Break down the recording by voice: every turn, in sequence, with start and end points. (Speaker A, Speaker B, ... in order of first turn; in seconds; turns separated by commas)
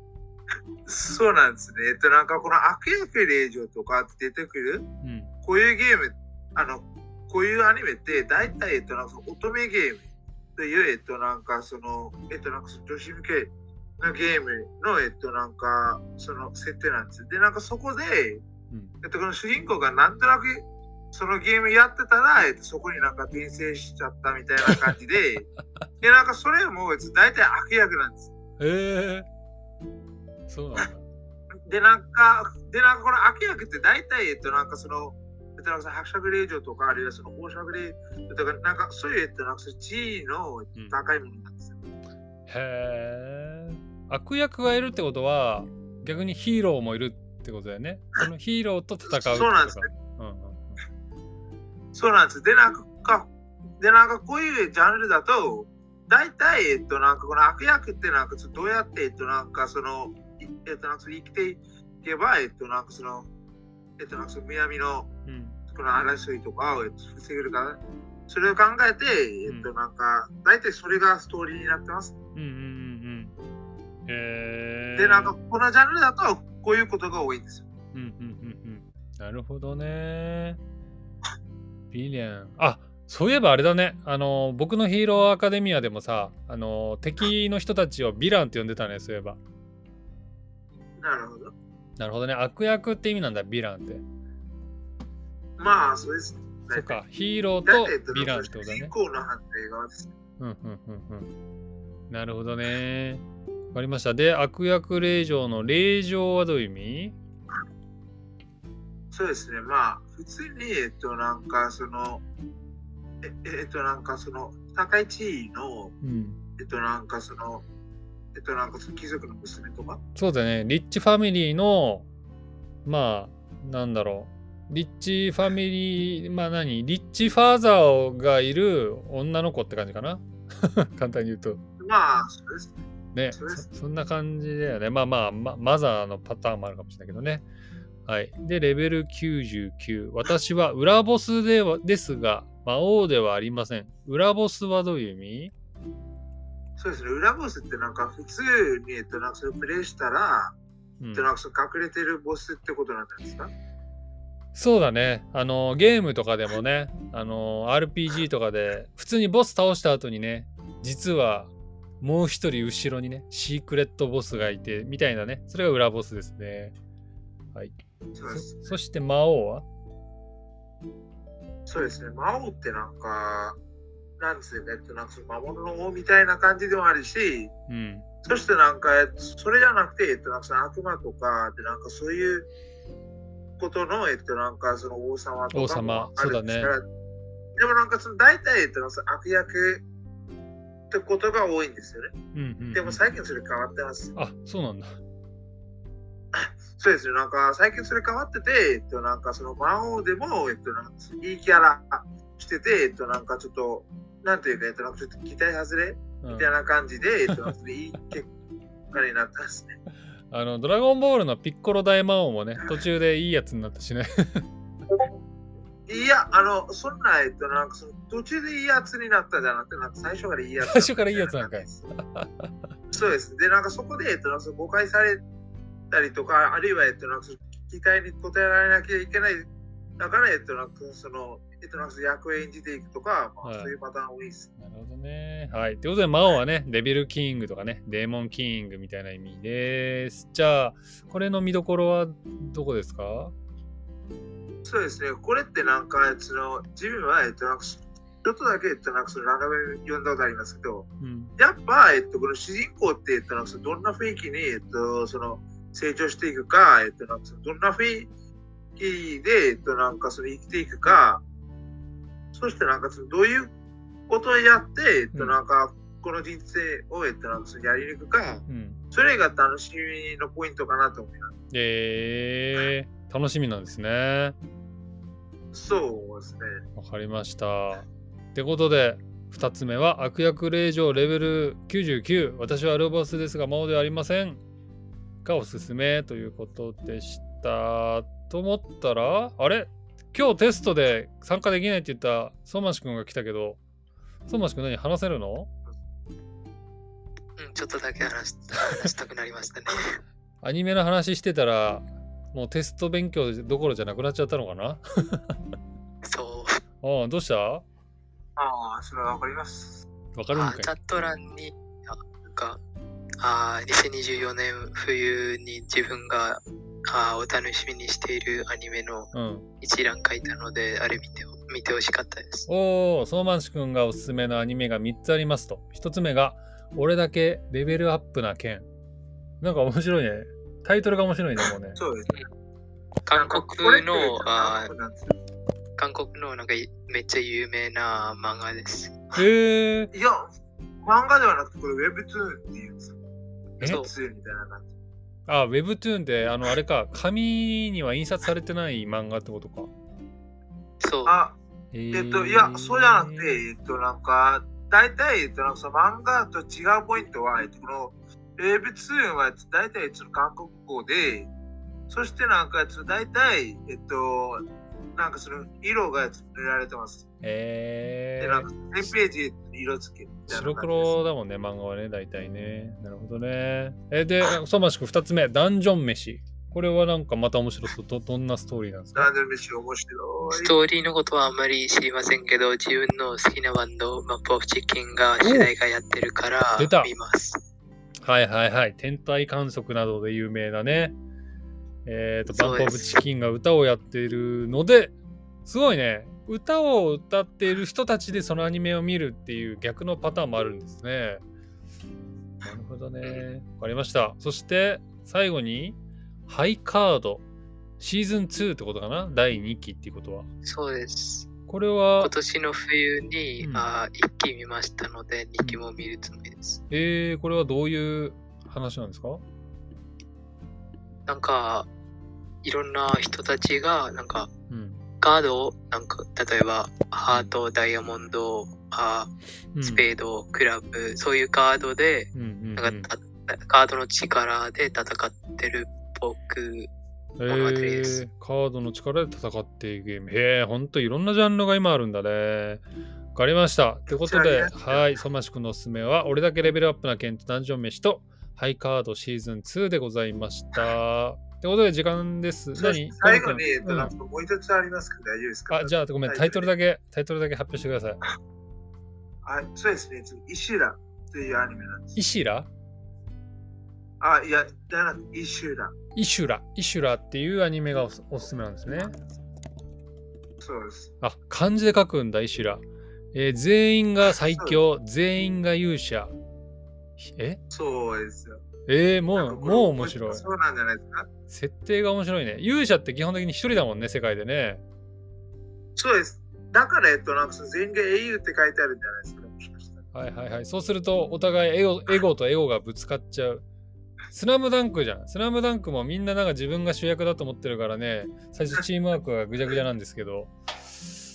Speaker A: 0.8-4.8, Speaker B: 5.0-5.3, Speaker A: 5.4-10.0, Speaker A: 10.6-18.4, Speaker A: 19.0-25.5, Speaker A: 26.0-28.3, Speaker B: 28.6-29.2, Speaker B: 30.5-31.0, Speaker A: 31.6-41.8, Speaker B: 42.5-50.8, Speaker A: 49.1-49.9, Speaker A: 51.9-63.3, Speaker A: 64.0-65.1, Speaker B: 65.2-65.6, Speaker A: 65.7-72.1, Speaker B: 69.5-69.7, Speaker B: 72.3-73.3, Speaker B: 74.1-75.3, Speaker A: 74.9-77.7, Speaker B: 77.9-80.6, Speaker B: 81.9-89.4, Speaker A: 91.0-91.5, Speaker B: 92.0-94.0, Speaker A: 95.6-97.0, Speaker B: 96.7-98.9, Speaker A: 97.6-100.1, Speaker B: 100.4-101.3, Speaker B: 102.1-107.2, Speaker A: 109.1-112.2, Speaker A: 113.2-115.9, Speaker B: 116.0-116.4, Speaker A: 116.6-117.6, Speaker A: 118.3-120.0, Speaker B: 120.2-122.1, Speaker B: 122.8-131.6, Speaker A: 131.8-132.8, Speaker B: 133.1-137.4, Speaker A: 133.3-133.7, Speaker B: 138.1-145.5, Speaker A: 146.8-150.6, Speaker B: 151.0-151.3, Speaker A: 151.1-153.5, Speaker B: 154.5-166.7, Speaker A: 168.1-168.7, Speaker B: 168.3-169.7, Speaker A: 171.7-173.6, Speaker A: 174.2-177.5, Speaker B: 177.7-178.1, Speaker A: 178.2-182.5, Speaker A: 183.6-186.8, Speaker B: 185.5-186.7, Speaker A: 187.6-189.8, Speaker A: 190.9-192.1, Speaker B: 192.3-193.0, Speaker A: 192.7-194.1, Speaker B: 194.2-195.0, Speaker A: 196.3-208.3, Speaker B: 206.2-206.5, Speaker A: 208.9-209.8, Speaker B: 210.3-214.5, Speaker A: 215.9-221.8, Speaker B: 220.6-222.5, Speaker A: 222.9-225.2, Speaker A: 225.9-229.4, Speaker A: 230.0-234.5, Speaker B: 233.4-233.7, Speaker B: 234.6-243.3, Speaker A: 244.6-258.1, Speaker B: 251.0-251.3, Speaker A: 258.8-261.2, Speaker A: 262.3-263.5, Speaker A: 264.1-271.3, Speaker B: 265.1-265.4, Speaker B: 268.5-268.8, Speaker B: 271.5-274.4, Speaker A: 275.5-276.6, Speaker B: 276.8-284.4, Speaker B: 285.2-293.6, Speaker B: 294.3-295.5, Speaker C: 297.4-300.0, Speaker B: 300.4-305.4, Speaker C: 306.0-306.6, Speaker B: 306.8-307.6, Speaker A: 308.4-309.8, Speaker B: 310.1-310.7, Speaker C: 310.3-312.6, Speaker C: 313.2-322.5, Speaker B: 319.1-319.5, Speaker B: 322.5-328.6, Speaker B: 329.4-331.8, Speaker A: 331.8-332.2, Speaker C: 333.1-334.7, Speaker A: 333.1-335.1, Speaker C: 335.8-339.0, Speaker B: 339.1-339.9, Speaker A: 339.9-342.9, Speaker C: 343.6-343.9, Speaker A: 343.6-344.7, Speaker B: 345.3-349.7, Speaker C: 350.8-351.1, Speaker A: 351.1-351.4, Speaker B: 351.7-353.4, Speaker A: 351.9-361.3, Speaker A: 361.9-367.1, Speaker B: 367.2-368.5, Speaker A: 368.2-370.9, Speaker B: 370.3-379.1, Speaker A: 378.9-380.5, Speaker C: 380.3-387.4, Speaker B: 385.2-385.5, Speaker B: 386.6-386.9, Speaker B: 388.0-390.9, Speaker B: 391.9-401.2, Speaker C: 392.3-393.0, Speaker B: 402.4-407.2, Speaker B: 407.8-410.3, Speaker C: 410.4-411.3, Speaker B: 411.5-412.1, Speaker C: 412.0-416.6, Speaker B: 413.4-413.7, Speaker B: 416.7-419.2, Speaker C: 421.1-421.7, Speaker C: 422.4-424.3, Speaker B: 424.5-424.8, Speaker C: 425.0-436.7, Speaker B: 427.1-427.3, Speaker B: 429.5-429.9, Speaker B: 432.1-432.9, Speaker B: 437.2-442.6, Speaker C: 437.3-438.0, Speaker B: 443.1-453.9, Speaker A: 443.9-444.9, Speaker A: 452.6-456.5, Speaker B: 455.5-458.0, Speaker A: 459.2-462.0, Speaker B: 461.9-462.5, Speaker A: 464.0-465.7, Speaker B: 465.9-468.9, Speaker A: 470.4-470.9, Speaker B: 471.0-476.1, Speaker A: 474.2-474.6, Speaker B: 477.0-477.4, Speaker A: 477.5-478.4, Speaker B: 478.7-480.2, Speaker A: 479.1-481.1, Speaker B: 481.3-484.6, Speaker A: 485.8-489.8, Speaker B: 489.9-493.4, Speaker B: 494.1-500.9